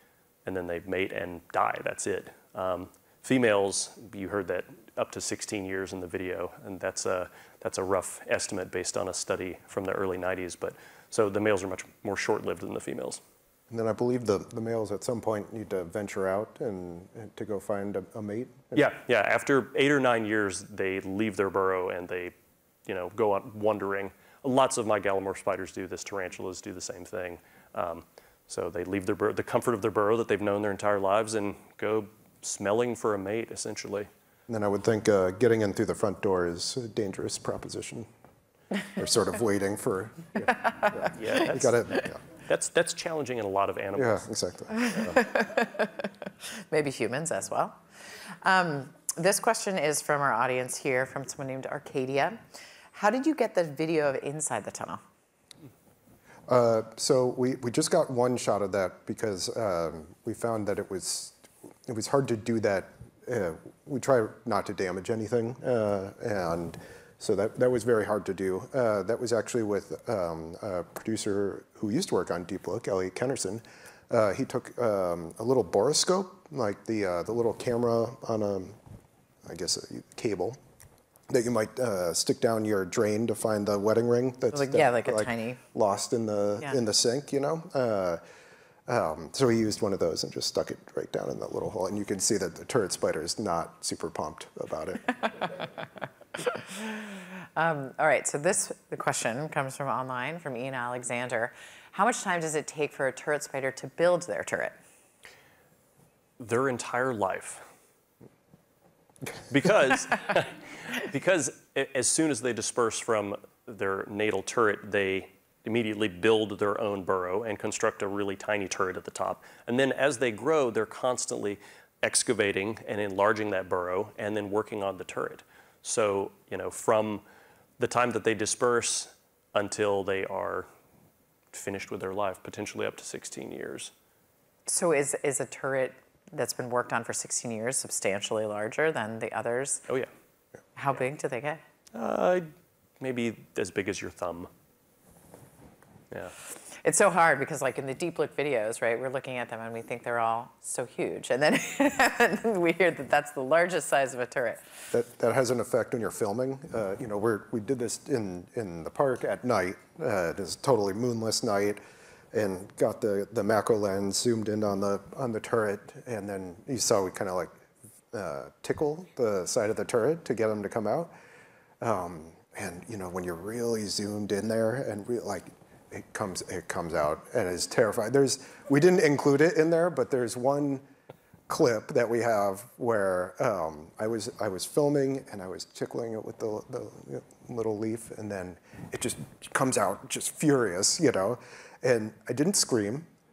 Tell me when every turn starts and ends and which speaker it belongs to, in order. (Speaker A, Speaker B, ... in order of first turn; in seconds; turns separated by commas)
Speaker A: 0.5-13.2, Speaker B: 13.7-18.9, Speaker A: 18.7-22.3, Speaker A: 22.9-34.1, Speaker B: 34.5-38.1, Speaker B: 39.0-42.2, Speaker A: 41.1-41.8, Speaker A: 42.5-44.3, Speaker B: 44.0-45.2, Speaker C: 44.8-46.1, Speaker C: 46.7-47.8, Speaker C: 48.4-52.4, Speaker C: 52.9-55.0, Speaker B: 56.5-78.8, Speaker B: 79.5-80.6, Speaker B: 81.3-88.2, Speaker C: 84.5-85.6, Speaker B: 88.9-95.1, Speaker C: 96.4-104.8, Speaker A: 106.4-107.7, Speaker A: 109.5-127.2, Speaker A: 127.8-130.7, Speaker A: 131.5-133.9, Speaker C: 134.7-139.8, Speaker C: 140.8-141.6, Speaker A: 141.9-144.5, Speaker C: 146.7-154.6, Speaker B: 154.9-161.8, Speaker B: 162.3-167.6, Speaker B: 168.1-171.1, Speaker B: 171.8-180.8, Speaker B: 181.5-193.1